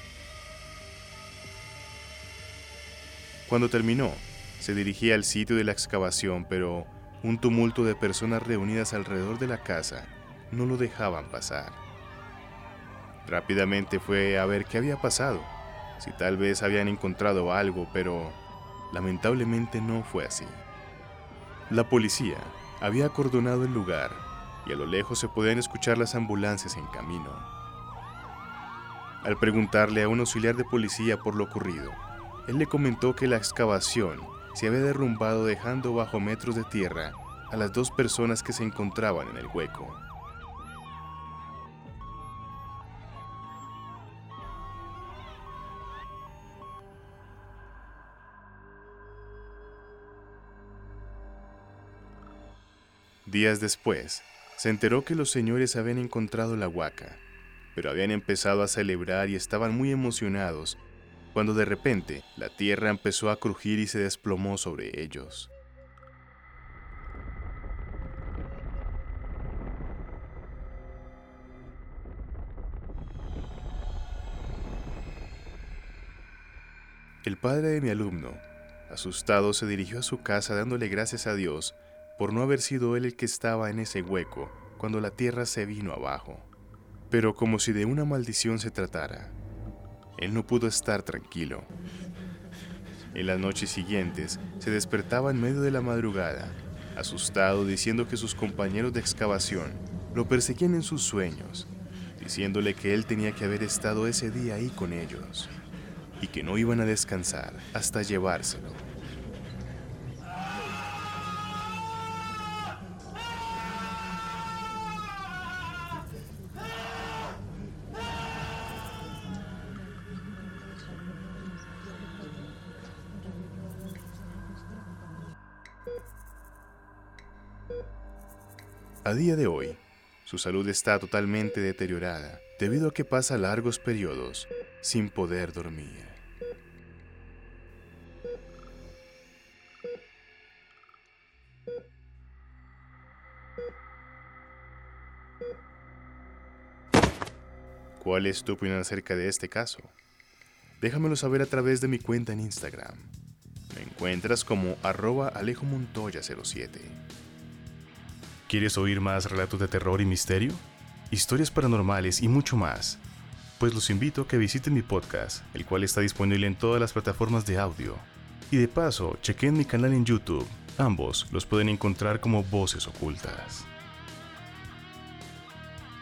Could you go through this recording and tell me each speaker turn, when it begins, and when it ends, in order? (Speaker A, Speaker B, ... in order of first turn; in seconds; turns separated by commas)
Speaker A: 3.5-11.8, Speaker A: 13.2-20.6, Speaker A: 21.7-27.5, Speaker A: 29.2-40.0, Speaker A: 53.2-57.2, Speaker A: 57.7-60.8, Speaker A: 61.3-65.5, Speaker A: 77.2-86.5, Speaker A: 87.1-89.3, Speaker A: 90.2-91.7, Speaker A: 93.1-105.5, Speaker A: 106.2-108.8, Speaker A: 129.0-136.2, Speaker A: 148.0-149.9, Speaker A: 150.8-153.1, Speaker A: 153.7-157.0, Speaker A: 158.5-163.0, Speaker A: 163.6-173.7